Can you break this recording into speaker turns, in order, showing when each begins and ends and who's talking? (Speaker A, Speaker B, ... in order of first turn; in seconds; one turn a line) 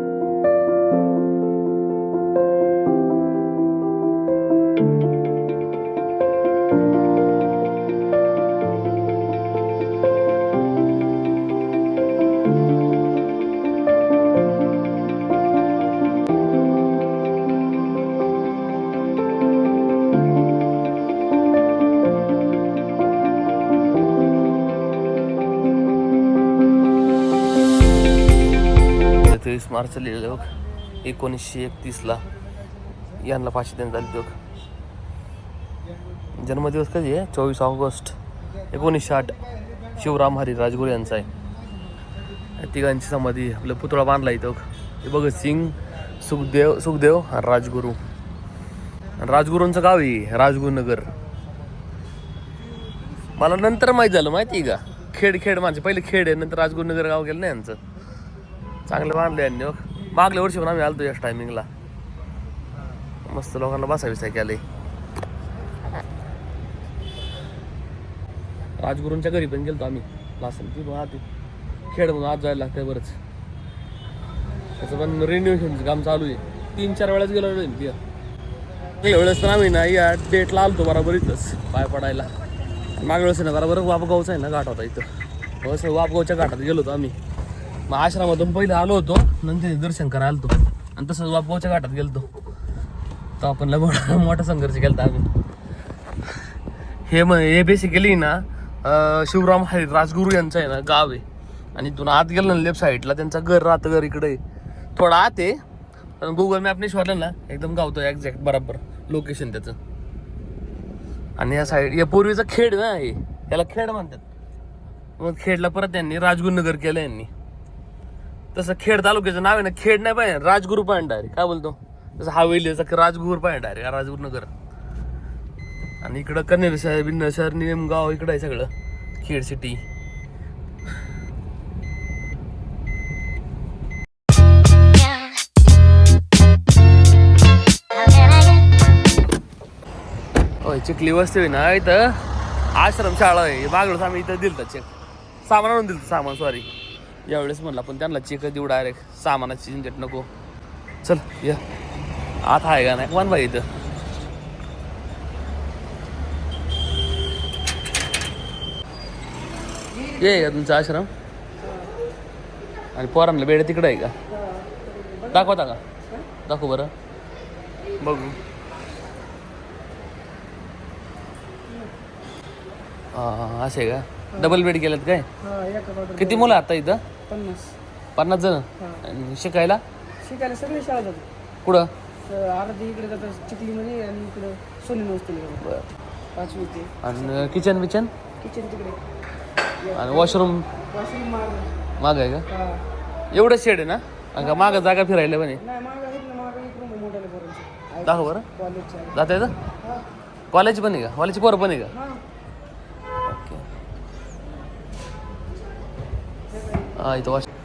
Speaker A: 29.2-30.5
Speaker A: 31.0-32.2
Speaker A: 33.2-34.3
Speaker A: 36.4-38.1
Speaker A: 38.7-39.4
Speaker A: 39.9-41.3
Speaker A: 42.6-48.0
Speaker A: 49.2-51.1
Speaker A: 53.4-57.8
Speaker A: 58.9-61.7
Speaker A: 63.2-64.6
Speaker A: 68.8-71.2
Speaker A: 71.9-73.2
Speaker A: 74.8-78.0
Speaker A: 79.0-82.3
Speaker A: 83.0-85.0
Speaker A: 85.6-87.1
Speaker A: 87.9-92.3
Speaker A: 93.4-95.3
Speaker A: 97.1-101.2
Speaker A: 101.8-104.4
Speaker A: 105.0-105.6
Speaker A: 106.2-109.8
Speaker A: 111.4-114.2
Speaker A: 115.2-117.3
Speaker A: 118.5-124.5
Speaker A: 126.0-129.8
Speaker A: 140.6-142.2
Speaker A: 142.7-144.9
Speaker A: 145.4-146.7
Speaker A: 147.2-150.3
Speaker A: 151.0-151.6
Speaker A: 152.4-153.7
Speaker A: 160.1-161.1
Speaker A: 162.9-164.1
Speaker B: 164.3-165.5
Speaker A: 165.3-165.8
Speaker A: 166.4-166.9
Speaker A: 168.0-168.3
Speaker A: 173.1-175.3
Speaker B: 174.3-174.6
Speaker B: 175.4-176.6
Speaker A: 176.1-177.0
Speaker B: 177.3-177.8
Speaker A: 178.2-179.8
Speaker B: 180.2-181.3
Speaker A: 181.6-181.9
Speaker B: 182.2-185.7
Speaker A: 185.6-185.9
Speaker B: 186.3-187.4
Speaker A: 187.0-188.1
Speaker B: 188.4-189.0
Speaker B: 189.8-191.7
Speaker A: 189.9-190.7
Speaker A: 192.0-192.5
Speaker A: 193.3-195.6
Speaker B: 194.4-194.9
Speaker B: 195.6-199.1
Speaker A: 198.0-198.5
Speaker A: 199.1-199.5
Speaker A: 200.5-201.9
Speaker A: 203.3-203.6
Speaker A: 206.9-207.5